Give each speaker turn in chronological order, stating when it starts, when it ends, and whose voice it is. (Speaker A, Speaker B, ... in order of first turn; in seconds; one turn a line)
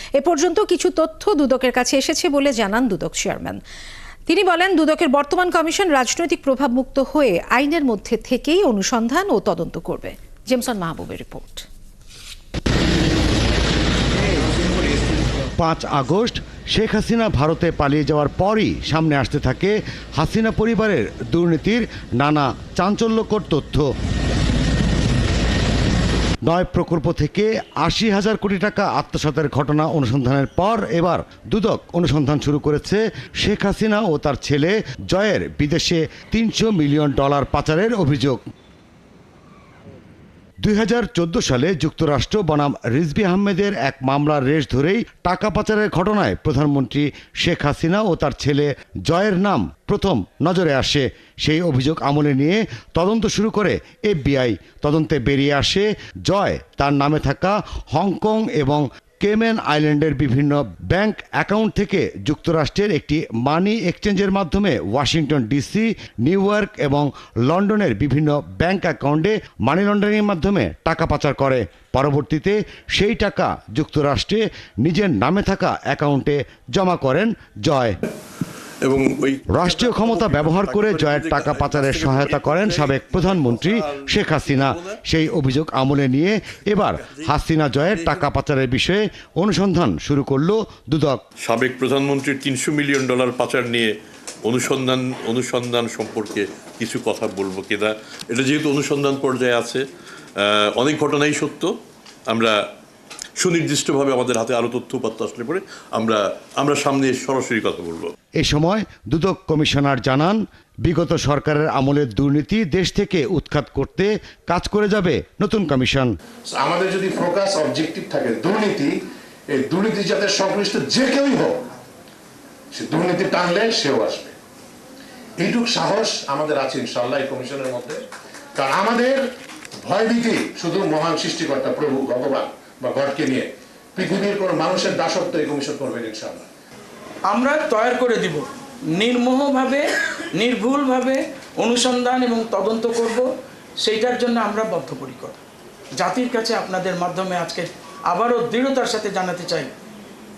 Speaker A: 0.2-3.6
Speaker A: 4.3-11.7
Speaker B: 15.6-23.9
Speaker B: 26.5-38.4
Speaker B: 40.6-78.0
Speaker C: 78.8-84.9
Speaker B: 79.5-91.2
Speaker C: 91.4-99.8
Speaker C: 100.4-101.7
Speaker C: 102.3-102.6
Speaker C: 103.4-108.1
Speaker B: 108.4-116.1
Speaker D: 116.5-119.0
Speaker D: 119.5-121.7
Speaker D: 122.7-124.3
Speaker D: 125.4-128.0
Speaker D: 128.6-129.2
Speaker D: 129.8-136.5
Speaker E: 137.3-143.3
Speaker E: 143.8-145.4
Speaker E: 146.0-149.7